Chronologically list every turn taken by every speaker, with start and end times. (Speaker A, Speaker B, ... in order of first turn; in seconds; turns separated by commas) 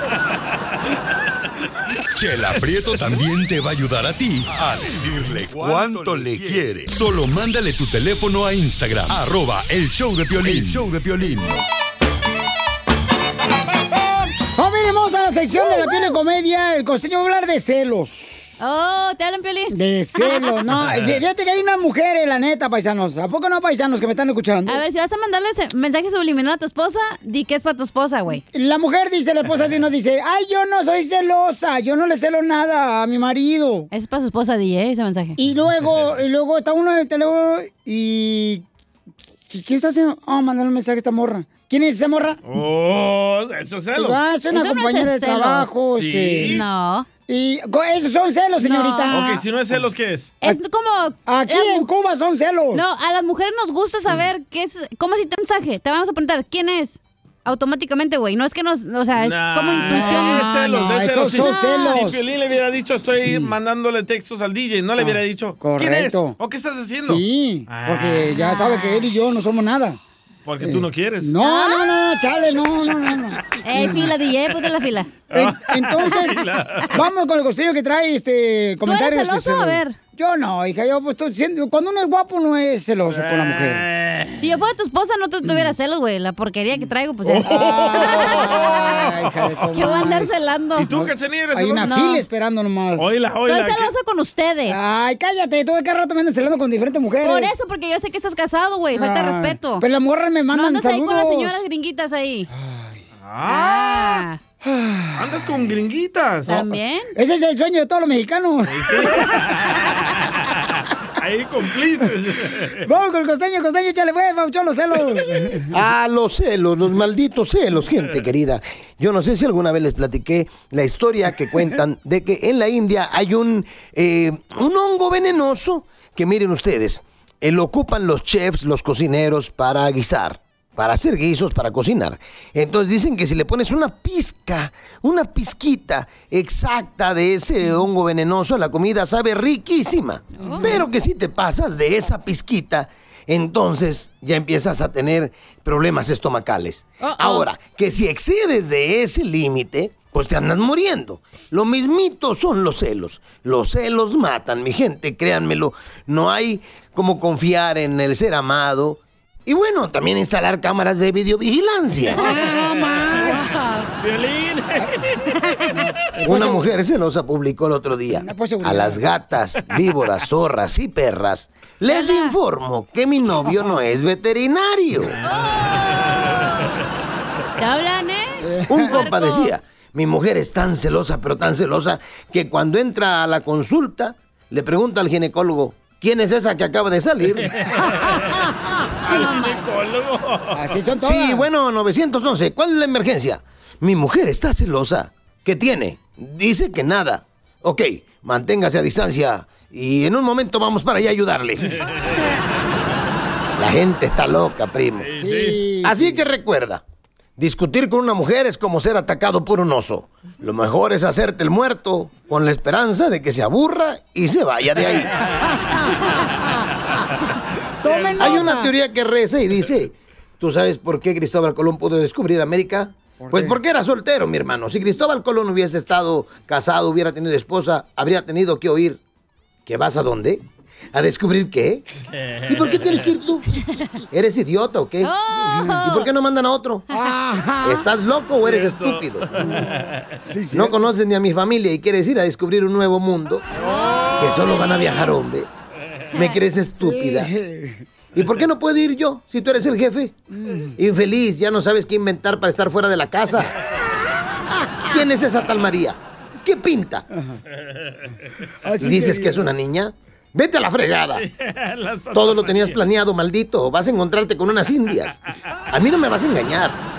Speaker A: 2.1-11.6, Speaker B: 14.5-18.6, Speaker C: 18.6-20.5, Speaker B: 19.7-24.8, Speaker C: 24.7-28.4, Speaker B: 28.5-33.9, Speaker C: 33.9-35.4, Speaker B: 35.4-38.6, Speaker B: 39.5-42.4, Speaker D: 42.5-44.2, Speaker B: 43.9-46.6, Speaker C: 44.5-45.8, Speaker D: 45.9-46.6, Speaker C: 46.4-47.1, Speaker B: 47.3-49.4, Speaker C: 48.6-49.2, Speaker D: 49.1-50.4, Speaker C: 50.4-51.9, Speaker B: 51.2-52.8, Speaker C: 52.7-62.0, Speaker D: 59.1-68.4, Speaker B: 59.9-62.2, Speaker B: 63.1-63.5, Speaker B: 65.0-66.4, Speaker B: 67.0-70.0, Speaker C: 68.3-69.0, Speaker D: 70.4-71.3, Speaker B: 70.6-74.1, Speaker C: 71.4-71.8, Speaker C: 73.6-75.1, Speaker D: 75.3-76.9, Speaker B: 75.3-83.8, Speaker C: 78.8-80.0, Speaker D: 83.1-84.3, Speaker C: 84.4-89.1, Speaker D: 87.2-88.4, Speaker B: 87.4-90.3, Speaker D: 89.2-89.5, Speaker C: 89.7-90.9, Speaker D: 90.8-92.0, Speaker B: 90.9-93.1, Speaker C: 91.8-92.2, Speaker D: 93.0-93.9, Speaker C: 93.4-94.8, Speaker B: 94.7-97.5, Speaker C: 97.2-99.8, Speaker B: 98.9-101.6, Speaker C: 100.5-102.5, Speaker B: 102.6-103.0, Speaker D: 103.2-104.1, Speaker C: 103.4-104.4, Speaker B: 104.6-105.6, Speaker D: 105.1-106.6, Speaker C: 106.5-107.1, Speaker B: 106.5-109.2, Speaker D: 108.7-112.8, Speaker B: 112.8-115.7, Speaker E: 115.7-162.2, Speaker C: 140.4-140.8, Speaker C: 147.0-147.5, Speaker B: 162.2-163.4, Speaker C: 162.2-163.9, Speaker D: 164.0-165.0, Speaker B: 165.7-166.7, Speaker E: 166.2-175.2, Speaker B: 168.1-169.0, Speaker C: 171.9-172.3, Speaker C: 177.6-179.5, Speaker B: 178.4-179.0, Speaker E: 178.7-187.5, Speaker D: 187.7-188.2, Speaker D: 189.0-190.7, Speaker C: 189.1-189.6, Speaker B: 190.5-191.4, Speaker E: 191.0-201.8, Speaker E: 203.6-205.1, Speaker D: 205.0-205.6, Speaker B: 205.1-206.2, Speaker E: 205.8-206.8, Speaker E: 207.4-215.1, Speaker B: 215.6-216.4, Speaker B: 217.8-218.7, Speaker D: 218.0-218.3, Speaker E: 218.2-229.0, Speaker E: 229.7-230.4, Speaker E: 230.9-231.8, Speaker E: 232.5-233.4, Speaker E: 234.1-236.8, Speaker C: 235.0-236.1, Speaker B: 236.9-237.8, Speaker E: 237.6-239.3, Speaker D: 238.4-239.2, Speaker B: 239.4-239.7, Speaker B: 240.2-240.8, Speaker E: 240.5-243.4, Speaker C: 243.6-244.9, Speaker E: 244.2-245.5, Speaker E: 246.1-247.3, Speaker B: 246.8-247.8, Speaker E: 248.1-250.2, Speaker B: 250.3-250.8, Speaker E: 250.8-253.5, Speaker E: 254.9-257.1, Speaker B: 258.6-259.4, Speaker E: 258.8-261.2, Speaker D: 261.1-262.8, Speaker E: 262.1-265.1, Speaker E: 265.7-266.8